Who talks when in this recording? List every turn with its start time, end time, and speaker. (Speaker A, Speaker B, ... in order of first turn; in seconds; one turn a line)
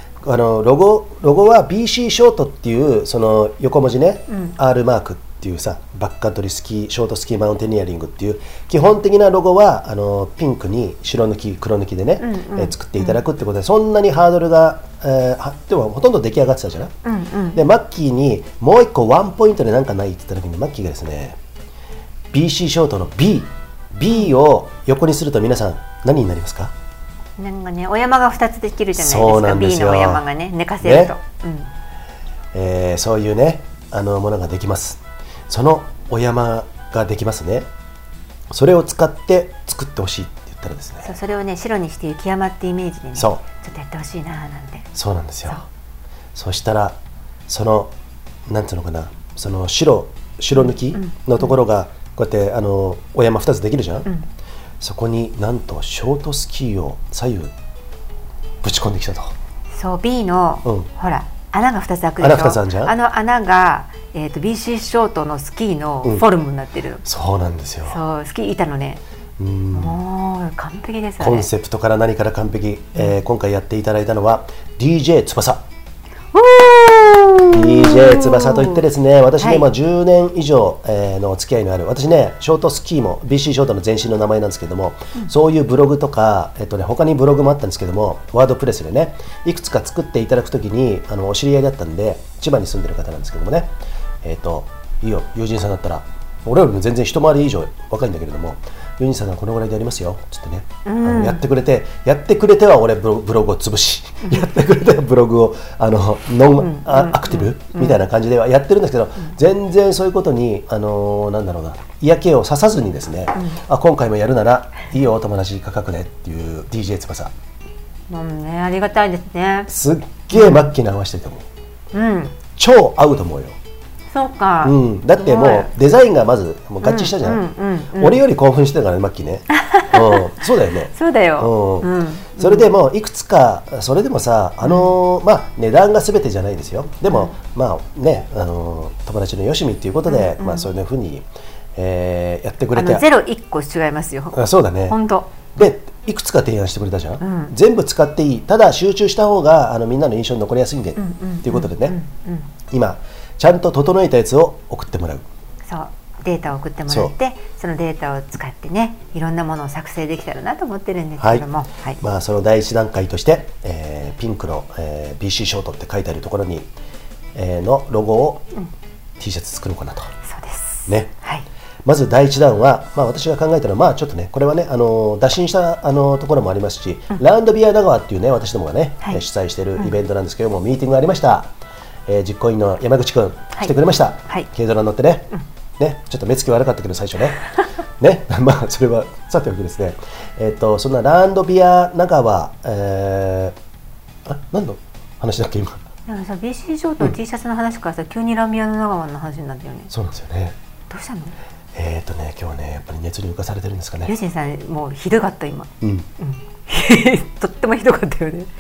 Speaker A: 0.2-16.9
Speaker B: 4.3-4.5
Speaker B: 12.2-13.2
Speaker B: 17.0-17.6
Speaker A: 17.5-21.4
Speaker A: 22.3-26.7
Speaker B: 27.4-31.7
Speaker A: 28.9-30.2
Speaker A: 30.8-31.1
Speaker A: 32.5-37.7
Speaker A: 38.5-41.1
Speaker B: 41.0-44.9
Speaker A: 43.1-43.4
Speaker A: 44.9-45.6
Speaker A: 46.3-47.9
Speaker A: 48.5-54.1
Speaker B: 50.5-51.5
Speaker A: 54.8-57.5
Speaker A: 58.6-59.3
Speaker B: 59.7-67.0
Speaker A: 62.2-62.9
Speaker A: 67.0-68.0
Speaker B: 67.8-69.0
Speaker A: 69.4-70.0
Speaker B: 69.7-71.5
Speaker A: 71.2-75.6
Speaker B: 76.3-78.8
Speaker A: 77.5-117.3
Speaker B: 79.4-79.7
Speaker B: 100.8-101.4
Speaker B: 106.6-108.0
Speaker B: 113.3-113.6
Speaker B: 118.1-119.7
Speaker A: 119.7-121.4
Speaker B: 120.3-120.6
Speaker B: 121.9-122.4
Speaker A: 122.5-123.6
Speaker B: 124.1-125.7
Speaker A: 124.6-127.4
Speaker B: 126.8-128.2
Speaker A: 127.9-143.0
Speaker B: 129.5-130.3
Speaker B: 130.9-132.7
Speaker B: 134.6-134.9
Speaker B: 137.1-137.3
Speaker B: 140.1-140.7
Speaker B: 142.8-145.3
Speaker A: 144.3-145.0
Speaker A: 145.5-152.0
Speaker B: 147.2-147.5
Speaker B: 151.0-152.5
Speaker A: 152.7-155.2
Speaker B: 155.7-162.0
Speaker A: 161.2-161.4
Speaker A: 162.0-166.7
Speaker A: 167.3-168.5
Speaker A: 169.2-170.1
Speaker B: 170.2-171.4
Speaker A: 170.9-171.1
Speaker A: 171.8-181.5
Speaker A: 182.1-187.4
Speaker A: 188.0-193.6
Speaker A: 194.2-195.8
Speaker B: 196.1-199.9
Speaker A: 199.9-200.6
Speaker B: 200.9-201.3
Speaker A: 201.7-204.1
Speaker B: 204.0-208.5
Speaker A: 205.8-206.1